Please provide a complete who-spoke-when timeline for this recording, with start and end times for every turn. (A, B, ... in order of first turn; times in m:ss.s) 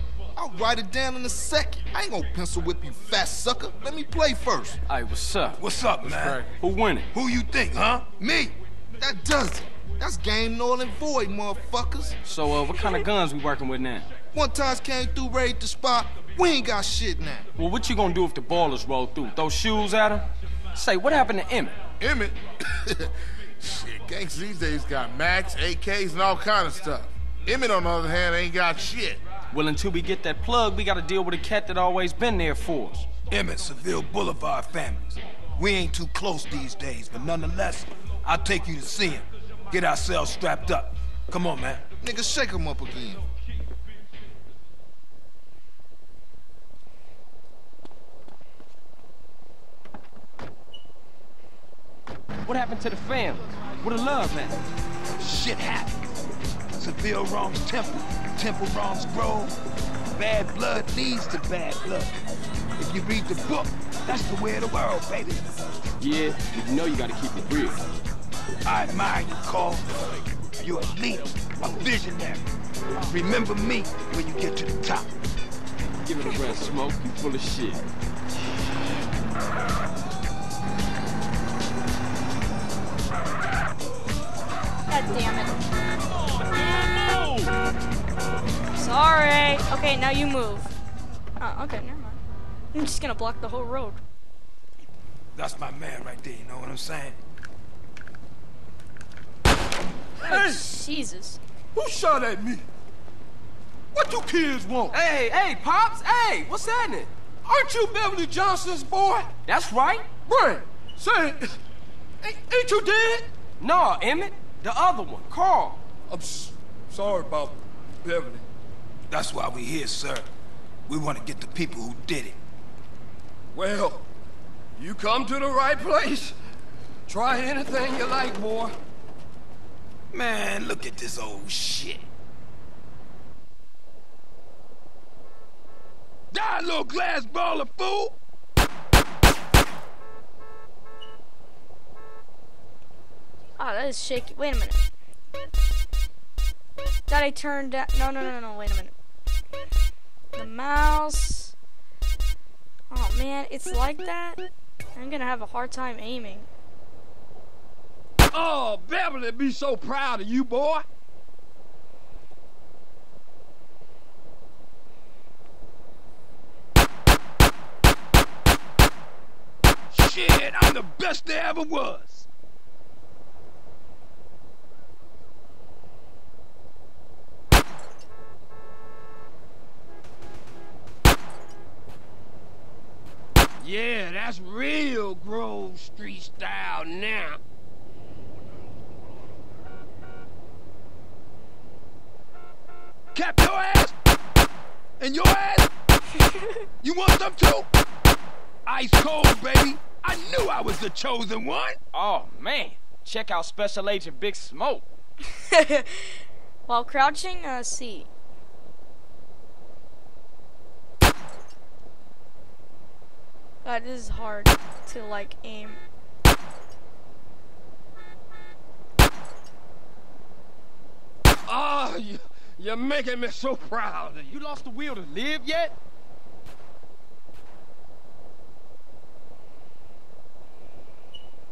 0:00.4-0:04.8 A
0:04.9-0:05.6 B
0:05.6-0:06.5 C
0:06.0-0:06.6 D
0:06.6-0:07.1 B
0:07.1-0:08.6 C
0:09.0-0:12.2 A
0:12.2-0:14.1 B
0:14.3-0:17.4 A
0:17.6-0:21.8 B
0:22.0-0:29.2 D
0:29.5-0:33.1 B
0:33.3-0:41.8 C
0:42.0-0:43.2 A
0:52.4-0:54.6 B
0:55.2-0:55.9 C
0:56.8-0:59.5 C
1:00.2-1:02.1 C
1:02.8-1:05.5 C
1:06.0-1:07.8 B
1:08.6-1:12.4 C
1:13.0-1:15.1 C
1:16.0-1:17.8 B
1:24.9-1:25.6 E
1:26.2-1:27.5 F
1:28.8-1:30.8 E
1:31.4-1:32.2 E
1:32.7-1:34.0 E
1:35.3-1:37.2 C
1:40.2-1:40.6 F
1:40.2-1:41.4 E
1:41.7-1:42.6 F
1:43.9-1:45.0 F
1:44.9-1:47.1 B
1:47.4-1:49.3 F
1:49.4-1:50.1 B
1:50.2-1:51.6 F
1:52.2-1:53.3 F
1:53.6-1:55.8 B
1:56.1-1:58.4 F
1:59.1-2:00.3 C
2:00.9-2:02.4 C
2:03.5-2:04.0 F
2:04.8-2:06.3 F
2:07.1-2:08.7 F
2:10.1-2:12.1 C
2:16.3-2:18.1 C
2:23.6-2:24.8 E
2:27.1-2:28.9 E
2:30.3-2:31.5 E
2:32.9-2:34.4 E
2:34.9-2:36.5 E
2:38.3-2:40.8 F
2:49.9-2:52.3 C
3:03.6-3:07.4 F
3:13.1-3:13.9 C
3:15.0-3:15.7 C
3:16.2-3:16.6 E
3:16.8-3:17.7 C
3:18.6-3:21.8 C
3:21.9-3:24.8 B
3:25.3-3:28.1 E
3:33.6-3:35.8 E
3:41.4-3:44.4 F
3:44.3-3:45.7 B